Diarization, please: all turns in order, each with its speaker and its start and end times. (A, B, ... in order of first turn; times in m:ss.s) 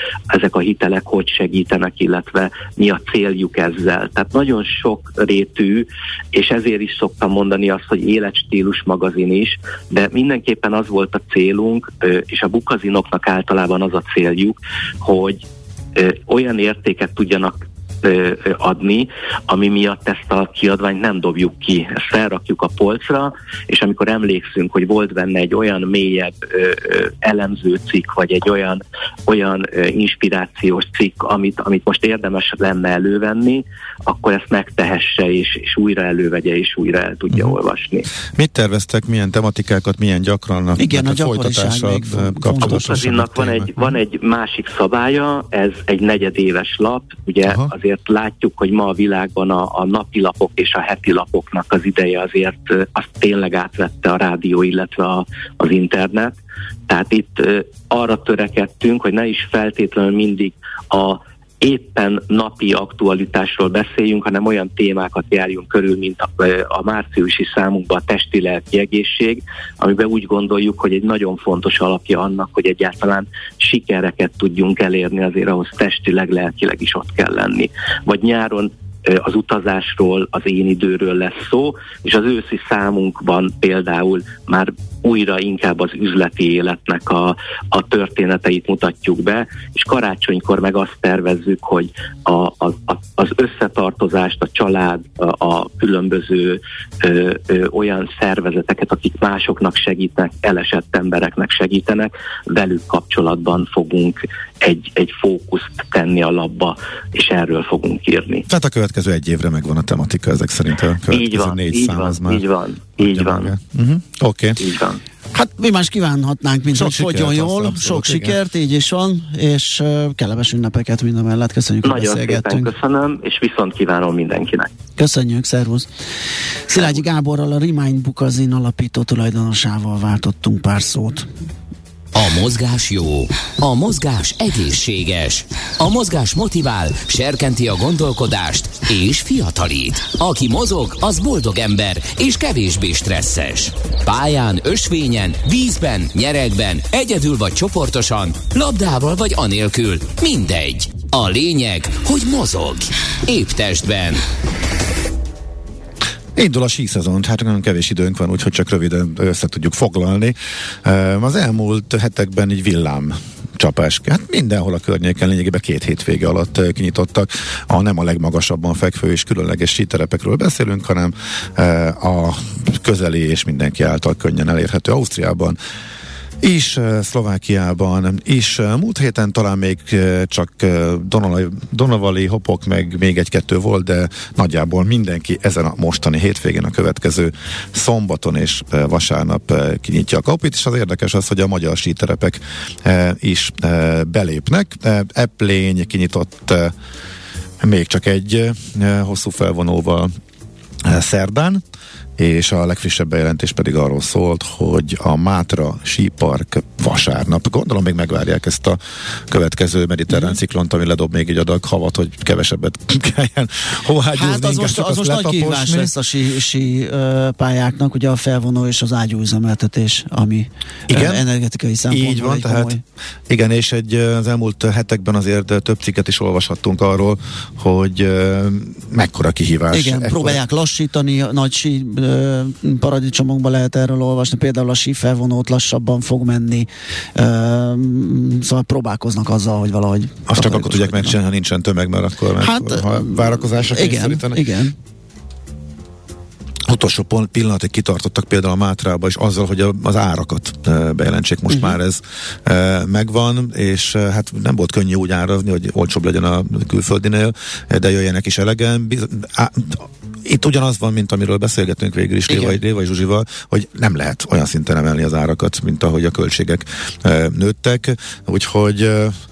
0:00.3-0:38.1 A
0:37.3-0:37.6 B
0:38.3-0:43.9 B
0:40.8-0:43.1 C
0:42.6-1:48.4 A
0:47.4-0:47.7 B
1:48.5-1:52.4 B
1:51.1-1:53.5 A
1:53.0-1:54.6 B
1:54.6-1:55.0 A
1:55.3-2:02.7 C
1:56.7-1:58.4 B
2:01.8-2:04.7 A
2:05.0-2:05.9 C
2:06.7-2:11.3 C
2:12.1-2:34.2 D
2:36.4-2:55.6 B
2:56.4-3:16.7 B
3:17.6-3:20.1 B
3:20.8-3:21.6 B
3:22.2-3:35.9 B
3:30.1-3:30.4 C
3:34.1-3:42.8 C
3:40.9-3:41.2 B
3:41.9-3:42.8 B
3:43.3-3:50.4 B
3:49.7-4:01.2 C
4:00.3-4:04.4 B
4:02.4-4:04.7 C
4:06.7-4:29.2 B
4:22.3-4:22.6 C